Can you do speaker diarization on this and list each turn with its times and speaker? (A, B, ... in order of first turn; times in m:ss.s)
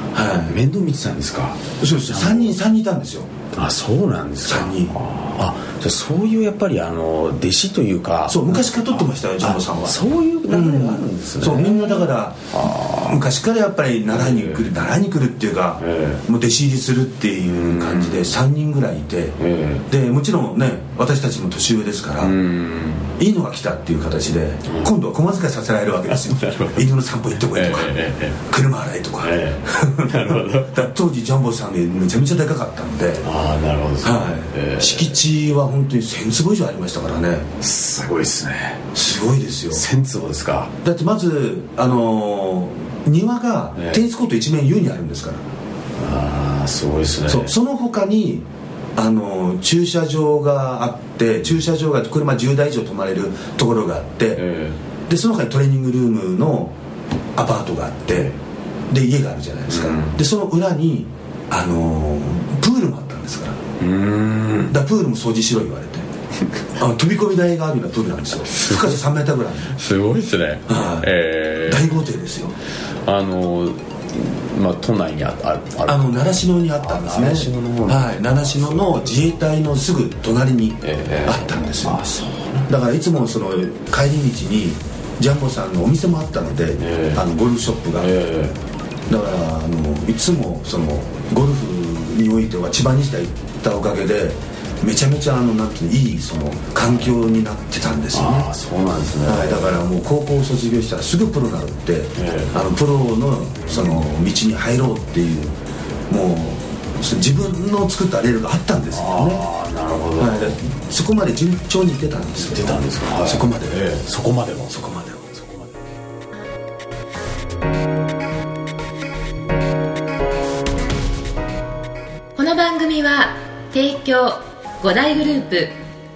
0:00.1-0:00.6 A
0:00.4-0:02.6 B
0:01.8-0:03.3 A
0:03.5-0:13.2 B
0:04.4-0:05.0 A
0:08.3-0:12.5 A
0:13.0-0:19.4 A
0:14.1-0:14.7 B
0:15.8-0:16.2 B
0:17.5-0:18.3 B
0:19.4-0:19.9 B
0:19.9-0:22.4 A
0:22.2-0:23.2 B
0:23.2-0:33.3 A
0:24.7-0:24.9 B
0:26.1-0:26.8 B
0:27.5-0:28.4 B
0:29.2-0:30.9 B
0:33.2-0:35.2 B
0:34.0-0:37.5 A
0:37.6-0:38.8 B
0:38.9-0:39.8 A
0:39.7-0:40.7 B
0:40.8-0:45.4 A
0:43.8-0:44.0 B
0:46.0-0:47.5 B
0:47.3-0:54.4 A
0:54.4-0:54.8 B
0:55.1-0:56.8 A
0:57.4-0:58.3 A
0:58.9-1:03.6 A
0:59.7-1:00.2 B
1:03.8-1:04.8 B
1:04.7-1:06.1 A
1:06.8-1:09.8 A
1:08.5-1:09.0 B
1:09.7-1:12.0 B
1:10.7-1:11.1 A
1:11.6-1:12.6 A
1:13.1-1:19.2 B
1:15.9-1:22.0 A
1:20.8-1:22.7 B
1:22.7-1:28.1 A
1:26.8-1:27.2 B
1:28.0-1:28.6 B
1:29.1-1:38.5 A
1:38.1-1:39.8 B
1:39.2-1:45.5 A
1:42.2-1:42.6 B
1:43.6-1:44.0 B
1:46.1-1:49.4 A
1:48.9-1:50.6 B
1:50.2-1:53.8 A
1:52.4-1:54.8 B
1:54.7-1:55.3 A
1:55.4-1:55.6 B
2:02.4-2:05.7 C